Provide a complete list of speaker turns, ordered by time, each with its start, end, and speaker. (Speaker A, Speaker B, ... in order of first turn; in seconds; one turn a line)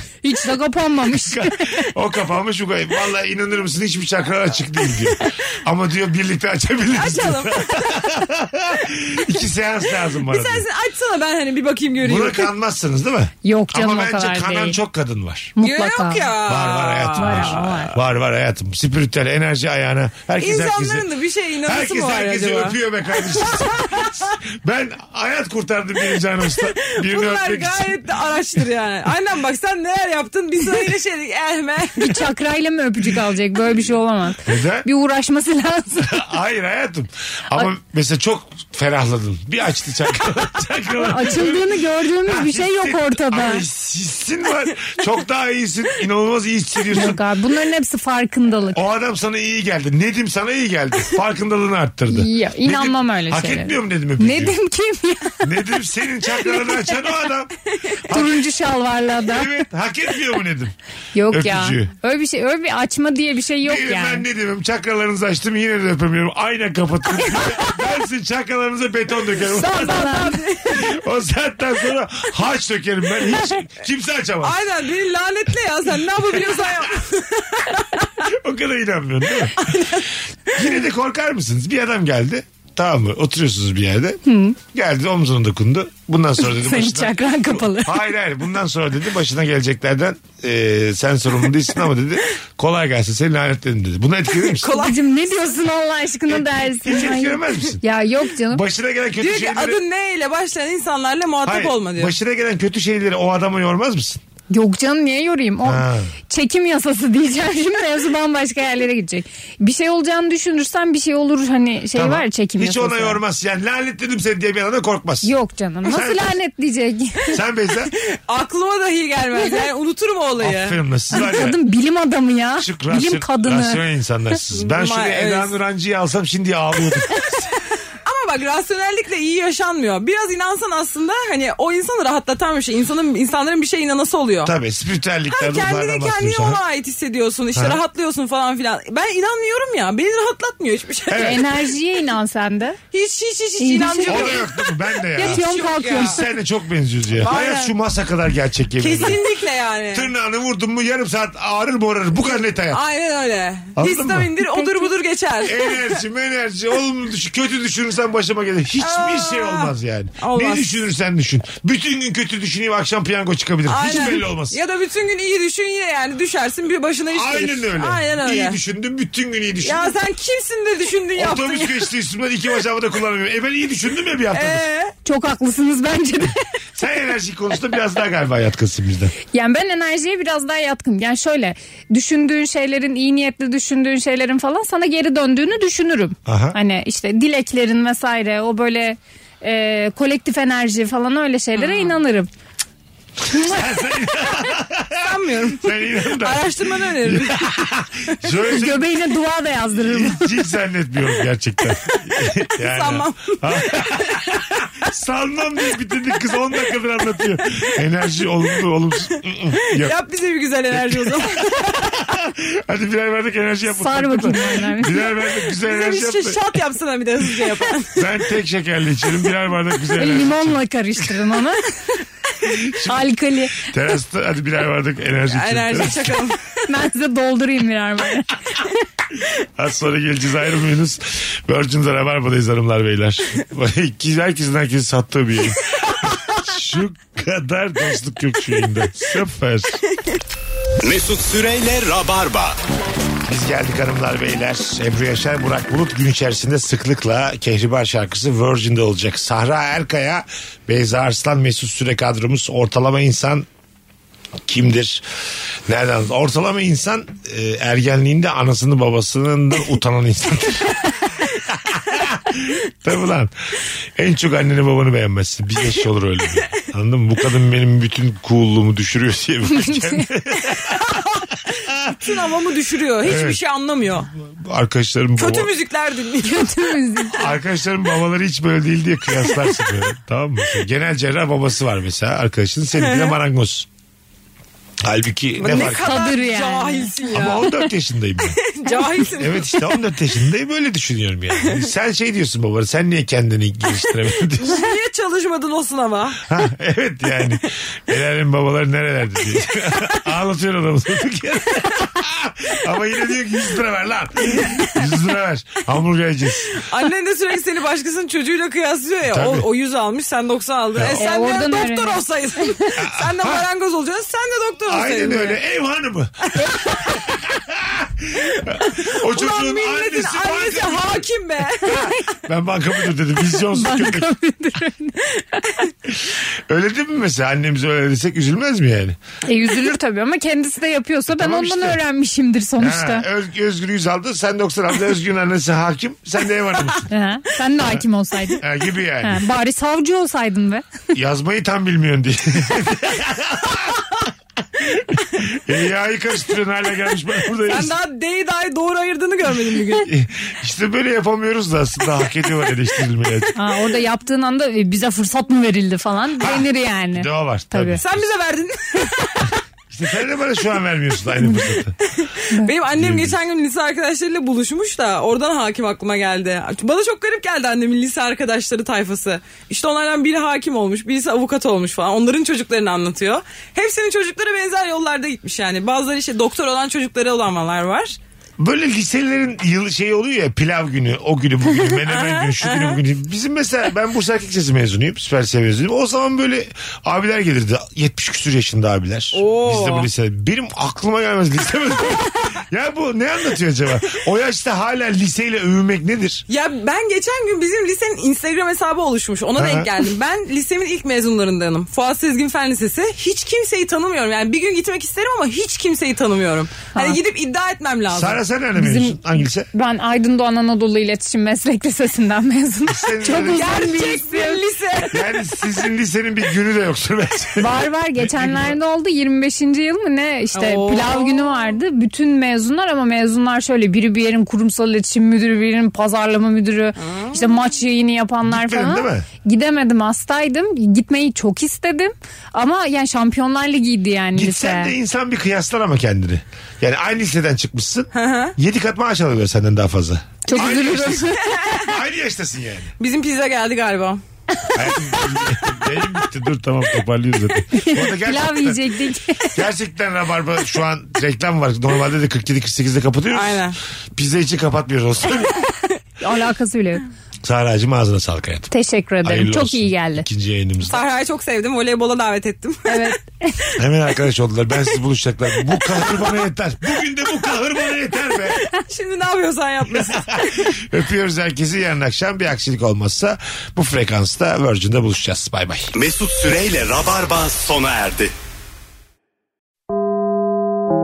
Speaker A: 0.2-1.7
Speaker B: 1.1-10.7
Speaker C: 6.9-7.8
Speaker C: 10.3-12.5
Speaker B: 12.0-15.6
Speaker A: 13.4-14.8
Speaker A: 15.6-16.4
Speaker C: 15.6-17.9
Speaker B: 16.4-21.1
Speaker A: 17.1-17.9
Speaker C: 20.4-24.3
Speaker B: 21.6-28.0
Speaker C: 26.6-32.2
Speaker A: 32.0-36.2
Speaker B: 34.5-34.9
Speaker B: 36.0-47.2
Speaker A: 41.0-43.6
Speaker A: 46.9-48.8
Speaker B: 48.7-54.6
Speaker A: 52.1-55.5
Speaker B: 55.4-58.4
Speaker A: 56.5-56.9
Speaker A: 58.1-59.5
Speaker B: 59.2-60.7
Speaker A: 61.1-64.2
Speaker B: 61.3-61.9
Speaker B: 63.6-74.6
Speaker C: 69.5-70.9
Speaker A: 69.6-70.4
Speaker C: 74.4-78.1
Speaker B: 76.3-76.6
Speaker B: 78.2-79.6
Speaker C: 79.6-80.7
Speaker B: 80.5-94.7
Speaker A: 84.3-84.6
Speaker A: 86.4-88.0
Speaker C: 94.4-95.2
Speaker A: 94.7-98.6
Speaker B: 96.3-97.8
Speaker B: 98.5-99.8
Speaker C: 99.2-102.1
Speaker B: 101.5-104.2
Speaker A: 104.5-113.2
Speaker B: 105.6-106.1
Speaker B: 111.9-115.3
Speaker A: 115.2-117.4
Speaker B: 115.8-116.4
Speaker B: 117.3-117.9
Speaker C: 117.9-120.8
Speaker B: 120.4-121.6
Speaker A: 121.1-123.8
Speaker B: 122.6-127.6
Speaker C: 124.5-125.5
Speaker C: 128.1-134.5
Speaker B: 134.4-136.6
Speaker C: 135.3-141.4
Speaker B: 137.6-137.8
Speaker B: 141.1-141.4
Speaker A: 141.1-142.8
Speaker C: 142.9-146.2
Speaker A: 143.6-144.4
Speaker B: 144.1-149.2
Speaker A: 145.2-146.2
Speaker C: 147.2-147.7
Speaker C: 148.8-150.1
Speaker B: 149.9-152.8
Speaker C: 152.7-155.7
Speaker B: 153.8-154.3
Speaker A: 154.4-154.9
Speaker B: 155.4-164.6
Speaker C: 158.8-160.8
Speaker C: 163.7-168.6
Speaker B: 167.1-169.9
Speaker C: 169.6-171.9
Speaker B: 171.2-174.6
Speaker C: 174.3-174.9
Speaker A: 175.1-176.4
Speaker B: 176.8-179.1
Speaker A: 179.3-192.3
Speaker B: 186.3-186.6
Speaker C: 191.6-192.0
Speaker B: 193.3-195.1
Speaker A: 193.3-193.7
Speaker C: 195.0-197.4
Speaker B: 195.6-198.9
Speaker A: 198.4-200.4
Speaker B: 199.8-209.9
Speaker C: 202.6-204.0
Speaker C: 209.7-211.7
Speaker B: 210.7-216.4
Speaker A: 213.7-215.1
Speaker C: 215.6-218.1
Speaker B: 217.9-220.6
Speaker A: 220.0-222.0
Speaker B: 222.5-222.9
Speaker A: 222.7-223.7
Speaker B: 223.6-226.2
Speaker C: 225.3-226.4
Speaker A: 226.7-228.6
Speaker B: 229.4-239.8
Speaker D: 240.8-242.6
Speaker B: 243.3-253.5
Speaker B: 254.5-255.1
Speaker B: 255.7-260.8
Speaker B: 261.5-263.3
Speaker B: 264.0-270.8
Speaker A: 269.5-270.1
Speaker C: 270.4-274.1
Speaker B: 273.0-273.4
Speaker B: 274.2-275.5
Speaker C: 275.2-276.5
Speaker A: 276.2-277.4
Speaker B: 277.1-283.7
Speaker C: 282.8-283.1
Speaker B: 284.8-286.1
Speaker A: 285.4-286.9
Speaker C: 285.4-287.7
Speaker B: 287.1-288.4
Speaker C: 288.3-289.7
Speaker B: 289.1-294.6
Speaker C: 294.4-296.2
Speaker B: 296.3-306.6
Speaker C: 306.6-315.4
Speaker B: 309.1-309.5
Speaker B: 310.8-311.0
Speaker A: 311.0-312.0
Speaker B: 312.8-313.4
Speaker B: 314.7-321.1
Speaker C: 318.8-321.9
Speaker B: 321.6-324.1
Speaker A: 323.5-325.4
Speaker B: 325.9-329.0
Speaker A: 329.3-333.1
Speaker B: 331.1-331.8
Speaker B: 332.6-336.9
Speaker A: 336.9-338.4
Speaker B: 338.4-339.2
Speaker A: 339.0-340.8
Speaker B: 340.9-343.9
Speaker B: 344.6-347.8
Speaker C: 347.5-349.9
Speaker B: 349.8-353.3
Speaker A: 353.4-357.8
Speaker B: 356.2-358.1
Speaker C: 357.8-359.3
Speaker B: 359.7-361.8
Speaker C: 361.9-378.0
Speaker B: 362.7-363.2
Speaker B: 378.4-396.2
Speaker C: 381.9-382.8
Speaker C: 389.1-389.9
Speaker C: 396.3-408.2
Speaker B: 399.4-399.7
Speaker B: 407.9-409.5
Speaker A: 408.6-409.0
Speaker A: 409.5-414.4
Speaker B: 412.7-413.9
Speaker C: 413.2-415.1
Speaker B: 414.9-418.6
Speaker A: 417.4-434.7
Speaker C: 420.3-421.6
Speaker C: 426.8-427.5
Speaker B: 428.2-429.1
Speaker B: 434.1-442.7
Speaker C: 437.9-438.4
Speaker A: 440.3-441.4
Speaker C: 442.8-444.0
Speaker B: 444.5-448.7
Speaker A: 447.5-449.4
Speaker B: 449.3-455.4
Speaker C: 453.1-453.6
Speaker A: 456.0-456.8
Speaker B: 457.2-458.5
Speaker A: 458.5-460.1
Speaker B: 459.0-460.9
Speaker C: 460.6-463.0
Speaker A: 462.7-463.5
Speaker B: 463.6-468.4
Speaker C: 468.4-470.6
Speaker B: 469.7-475.7
Speaker D: 475.7-478.1